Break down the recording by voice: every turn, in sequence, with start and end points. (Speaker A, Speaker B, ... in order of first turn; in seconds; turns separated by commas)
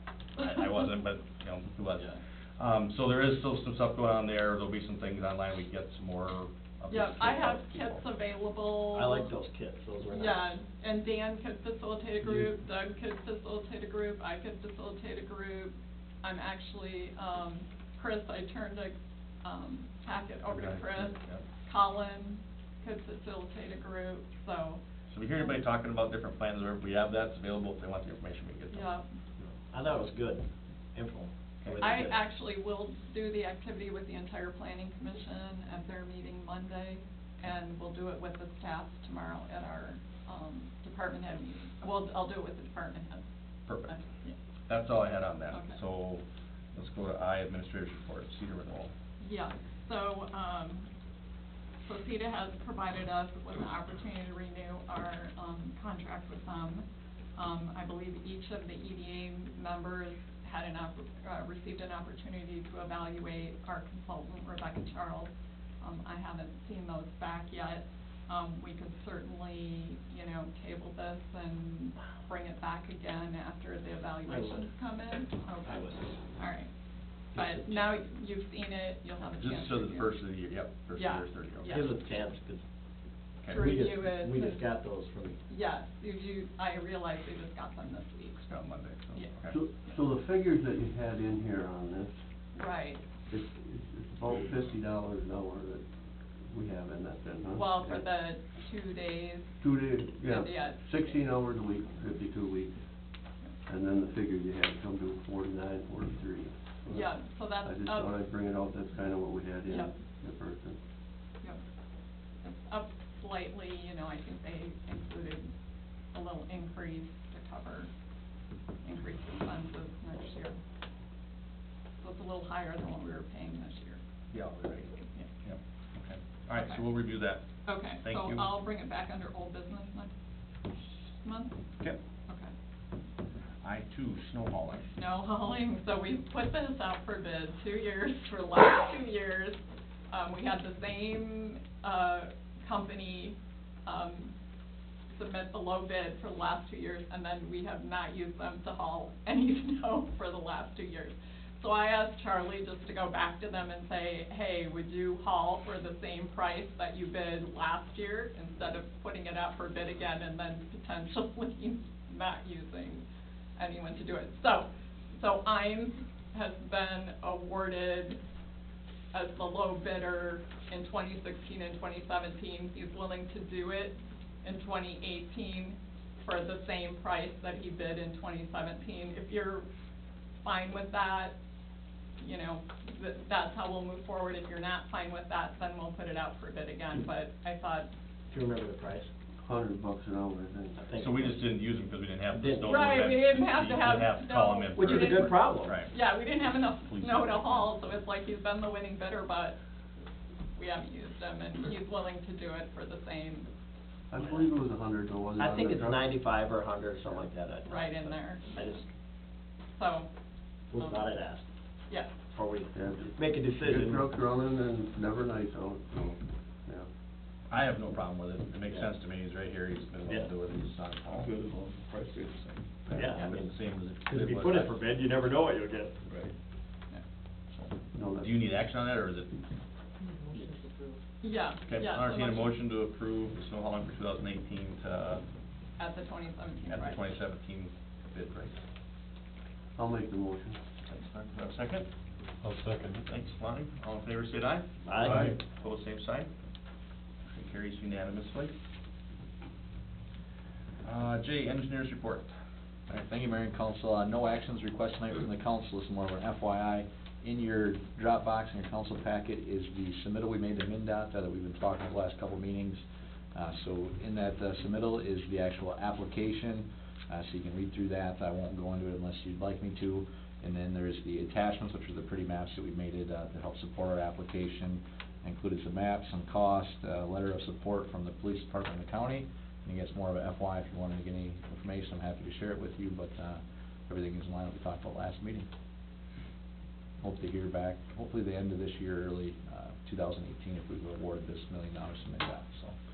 Speaker A: 0.3-8.0, Speaker B: 6.9-9.3, Speaker C: 8.9-10.6, Speaker B: 10.1-24.8, Speaker A: 20.4-21.4, Speaker A: 25.1-28.9, Speaker B: 28.7-29.1, Speaker C: 29.7-32.2, Speaker A: 31.6-31.9, Speaker B: 31.8-43.2, Speaker A: 43.6-44.0, Speaker B: 43.9-44.3, Speaker A: 44.7-46.2, Speaker B: 45.5-45.8, Speaker A: 46.7-48.9, Speaker B: 49.2-50.9, Speaker B: 51.8-76.7, Speaker C: 74.3-74.6, Speaker C: 75.7-76.1, Speaker C: 77.3-77.7, Speaker B: 77.3-80.2, Speaker A: 79.4-81.7, Speaker B: 81.0-82.0, Speaker C: 81.7-82.6, Speaker A: 83.4-83.7, Speaker B: 83.5-84.7, Speaker C: 83.5-85.4, Speaker B: 85.5-89.3, Speaker A: 88.4-89.5, Speaker D: 89.5-92.1, Speaker B: 92.5-93.0, Speaker D: 93.3-95.8, Speaker D: 96.5-98.0, Speaker B: 97.5-99.6, Speaker D: 99.6-102.8, Speaker B: 100.2-101.2, Speaker D: 103.6-110.8, Speaker B: 106.9-108.1, Speaker B: 109.7-110.0, Speaker B: 112.4-115.5, Speaker B: 116.1-117.9, Speaker B: 118.8-120.6, Speaker B: 122.0-124.0, Speaker A: 124.3-127.5, Speaker B: 126.5-126.8, Speaker B: 127.6-130.1, Speaker A: 128.0-128.4, Speaker B: 131.1-131.6, Speaker B: 132.3-132.5, Speaker A: 133.6-134.9, Speaker B: 134.9-144.3, Speaker B: 145.1-163.0, Speaker B: 163.6-168.2, Speaker B: 169.1-179.6, Speaker B: 180.4-181.3, Speaker B: 182.2-187.9, Speaker C: 188.3-189.1, Speaker D: 189.4-190.8, Speaker C: 190.8-191.5, Speaker A: 190.9-195.9, Speaker C: 192.3-192.7, Speaker B: 192.6-199.6, Speaker C: 194.8-195.8, Speaker A: 196.8-197.7, Speaker B: 200.5-203.5, Speaker D: 204.1-206.2, Speaker C: 205.4-208.8, Speaker B: 207.6-208.8, Speaker B: 209.8-210.1, Speaker C: 210.7-211.4, Speaker B: 210.8-211.1, Speaker C: 212.3-214.1, Speaker D: 212.7-216.9, Speaker A: 217.5-221.3, Speaker E: 221.2-222.4, Speaker A: 222.9-224.8, Speaker C: 222.9-226.0, Speaker A: 227.5-229.4, Speaker D: 227.9-228.4, Speaker B: 231.2-232.6, Speaker A: 231.7-235.2, Speaker B: 235.8-237.1, Speaker A: 236.7-238.6, Speaker D: 239.8-240.6, Speaker A: 240.9-241.9, Speaker E: 242.4-243.0, Speaker A: 243.0-246.3, Speaker C: 244.8-245.2, Speaker E: 245.0-245.3, Speaker A: 247.2-248.5, Speaker A: 250.8-252.3, Speaker F: 252.9-262.8, Speaker F: 263.3-285.5, Speaker F: 287.0-292.7